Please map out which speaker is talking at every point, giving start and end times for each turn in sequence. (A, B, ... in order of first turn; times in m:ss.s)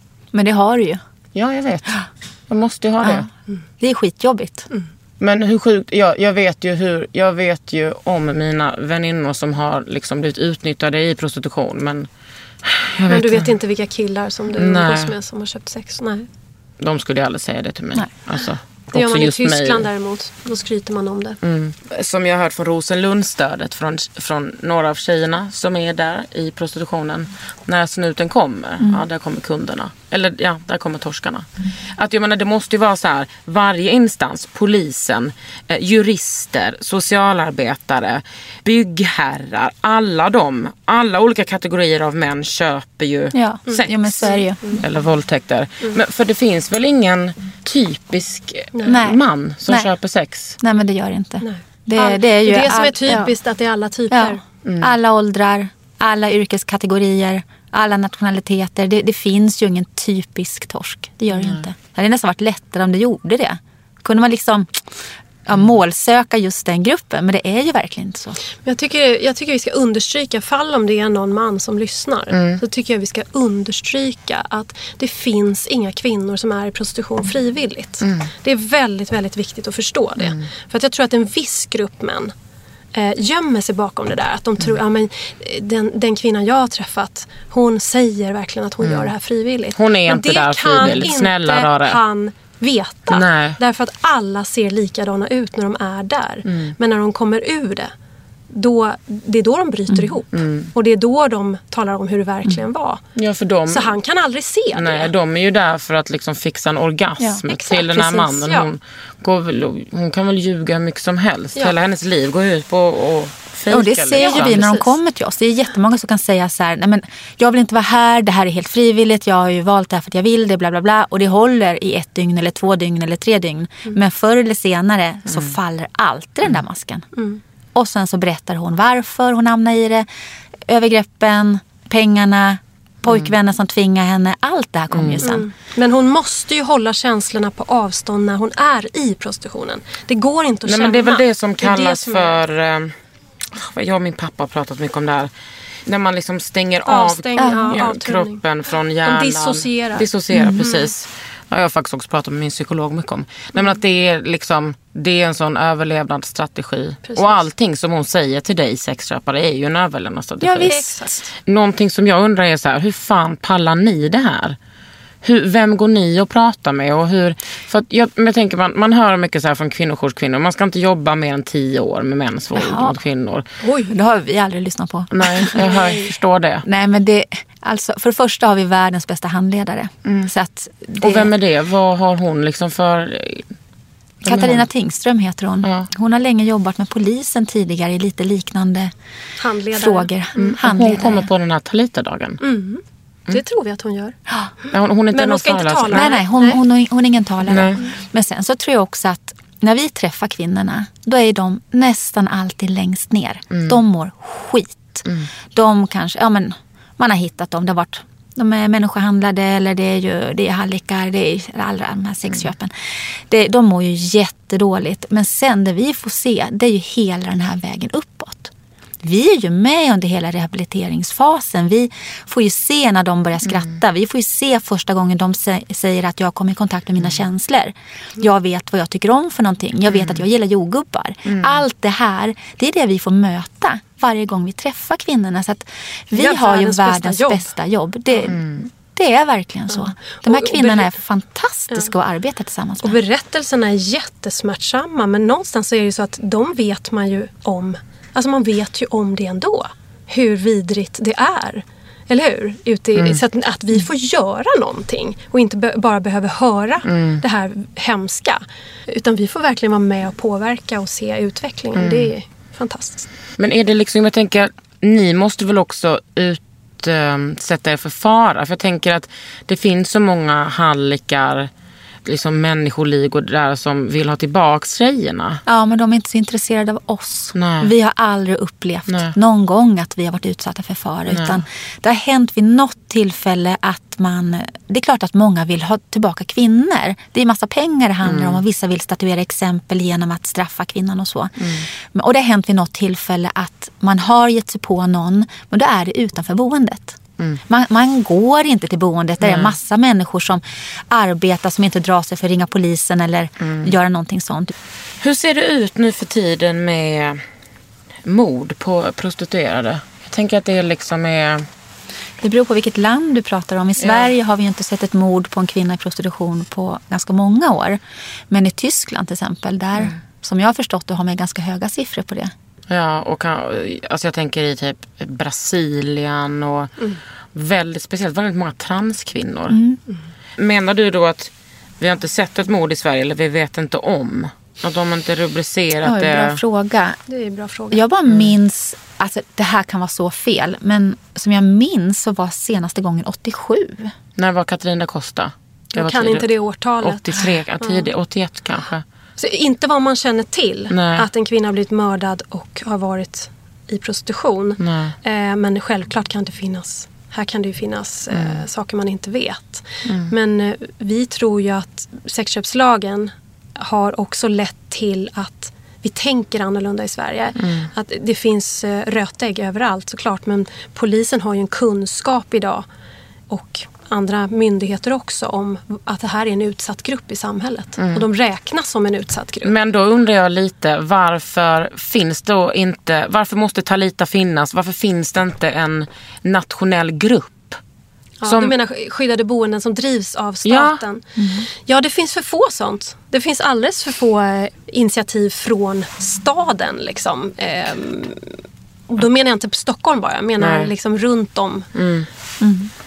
0:00.3-0:01.0 A
0:01.3-0:01.9 B
0:02.5-0:03.3 B
0:03.0-0:03.3 A
0:03.8-0:04.7 A
0:05.2-0:12.1 B
0:12.6-0:13.5 B
0:13.1-0:16.3 C
0:14.6-0:15.1 B
0:16.8-0:19.9 B
0:18.9-0:21.4 C
0:21.4-0:50.6 B
0:43.3-0:44.6 A
0:43.7-0:44.8 C
0:48.7-0:49.0 C
0:48.8-0:49.9 A
0:50.6-0:53.3 A
0:51.4-0:54.4 C
0:54.1-1:04.8 A
0:54.6-0:54.9 B
1:01.3-1:01.6 B
1:05.4-1:08.4 A
1:08.6-1:22.3 C
1:12.3-1:12.6 B
1:18.0-1:18.3 B
1:20.2-1:20.5 B
1:22.9-1:37.9 C
1:28.8-1:29.1 B
1:29.7-1:32.0 B
1:33.1-1:33.6 B
1:36.4-1:36.7 B
1:38.5-1:43.0 C
1:40.3-1:40.7 B
1:43.2-1:43.9 B
1:43.7-1:45.1 C
1:44.7-1:54.7 B
1:47.2-1:48.4 A
1:48.4-1:48.7 C
1:53.7-2:07.1 A
1:54.1-1:54.9 C
2:05.3-2:05.5 B
2:07.2-2:07.4 C
2:07.7-2:10.1 A
2:10.7-2:15.4 A
2:13.1-2:13.3 B
2:14.9-2:15.3 B
2:15.2-2:22.4 C
2:20.6-2:22.9 B
2:23.5-2:25.3 B
2:25.8-2:40.8 B
2:26.8-2:28.4 C
2:27.4-2:27.8 A
2:29.0-2:30.1 C
2:30.3-2:30.6 A
2:30.6-2:30.9 C
2:37.0-2:37.4 C
2:40.4-2:41.1 A
2:40.6-2:41.3 C
2:41.4-2:44.6 B
2:45.2-2:53.4 B
2:52.5-2:53.0 A
2:53.6-2:53.9 C
2:53.9-2:55.7 A
2:55.1-2:56.6 B
2:55.6-2:56.1 C
2:56.6-3:01.3 A
3:00.0-3:00.3 B
3:01.0-3:03.5 B
3:04.2-3:08.9 A
3:04.2-3:04.7 B
3:05.6-3:05.9 B
3:09.4-3:10.5 C
3:09.7-3:11.3 A
3:10.4-3:12.4 B
3:12.4-3:16.6 C
3:14.7-3:16.1 B
3:15.9-4:03.0 A
3:17.5-3:17.8 B
3:23.5-3:23.8 B
3:25.0-3:25.3 B
3:49.9-3:50.2 B
3:51.2-3:51.6 B
3:56.1-3:57.5 C
3:58.1-3:58.4 C
3:58.3-3:58.6 B
3:59.7-4:00.9 C
4:02.8-4:23.1 C
4:13.0-4:13.2 B
4:16.8-4:17.2 B
4:21.8-4:22.1 B
4:23.4-4:31.5 B
4:32.0-4:35.4 B
4:35.4-5:04.5 A
4:37.3-4:37.7 B
4:38.9-4:39.1 B
4:41.1-4:41.4 B
4:48.0-4:48.4 B
4:51.4-4:51.6 B
4:59.2-4:59.5 B
5:03.4-5:03.7 B
5:05.0-5:07.2 B
5:08.0-5:11.4 B
5:12.2-5:22.3 A
5:13.8-5:14.1 B
5:22.7-5:26.7 B
5:27.3-5:29.6 B
5:29.5-5:29.8 A
5:30.4-5:36.4 B
5:35.8-5:37.0 A
5:37.1-5:37.8 C
5:37.7-5:43.9 A
5:44.2-5:46.3 B
5:45.7-5:47.9 C
5:46.8-5:48.8 B
5:49.2-6:12.6 C
5:50.7-5:51.1 B
5:54.6-5:54.9 B
5:58.1-5:58.4 B
5:59.8-6:00.1 B
6:07.4-6:07.7 B
6:13.3-6:19.5 C
6:17.8-6:18.0 B
6:19.4-6:27.6 B
6:28.2-6:31.0 C
6:28.2-6:28.5 B
6:30.4-6:30.8 B
6:31.2-6:31.5 A
6:31.6-6:38.3 C
6:38.9-6:41.7 C
6:40.4-6:40.7 B
6:41.7-6:42.1 B
6:42.4-6:42.7 A